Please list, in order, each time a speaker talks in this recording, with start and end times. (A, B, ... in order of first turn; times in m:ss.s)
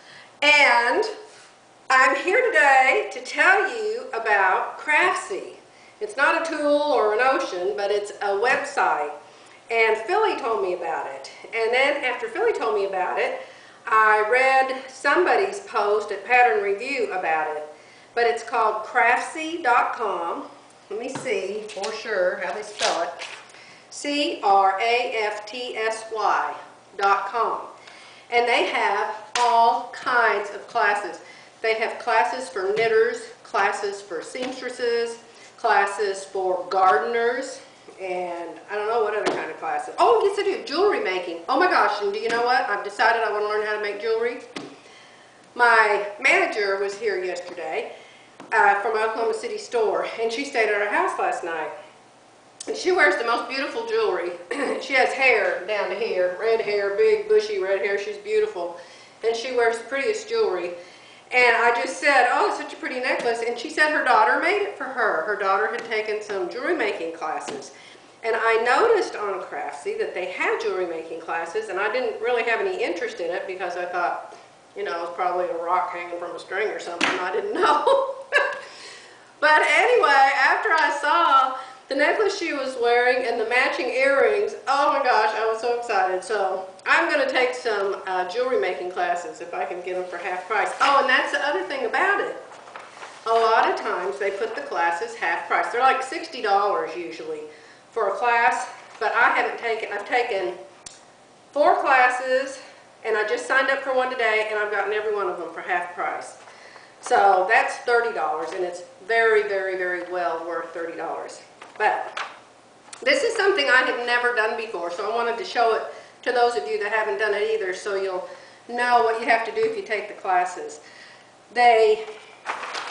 0:00.4-0:01.1 A
0:01.9-0:09.1 A
0:09.7-0:23.1 A
0:23.9-0:27.7 A
0:28.3-0:44.4 A
0:45.5-0:47.9 A
0:48.5-0:51.7 A
0:52.7-1:00.7 A
1:01.3-1:07.7 A
1:08.2-1:14.2 A
1:14.8-1:18.5 A
1:19.4-1:32.4 A
1:33.2-1:40.6 A
1:41.5-1:46.4 A
1:47.0-1:52.1 A
1:53.0-2:00.8 A
2:01.5-2:02.0 A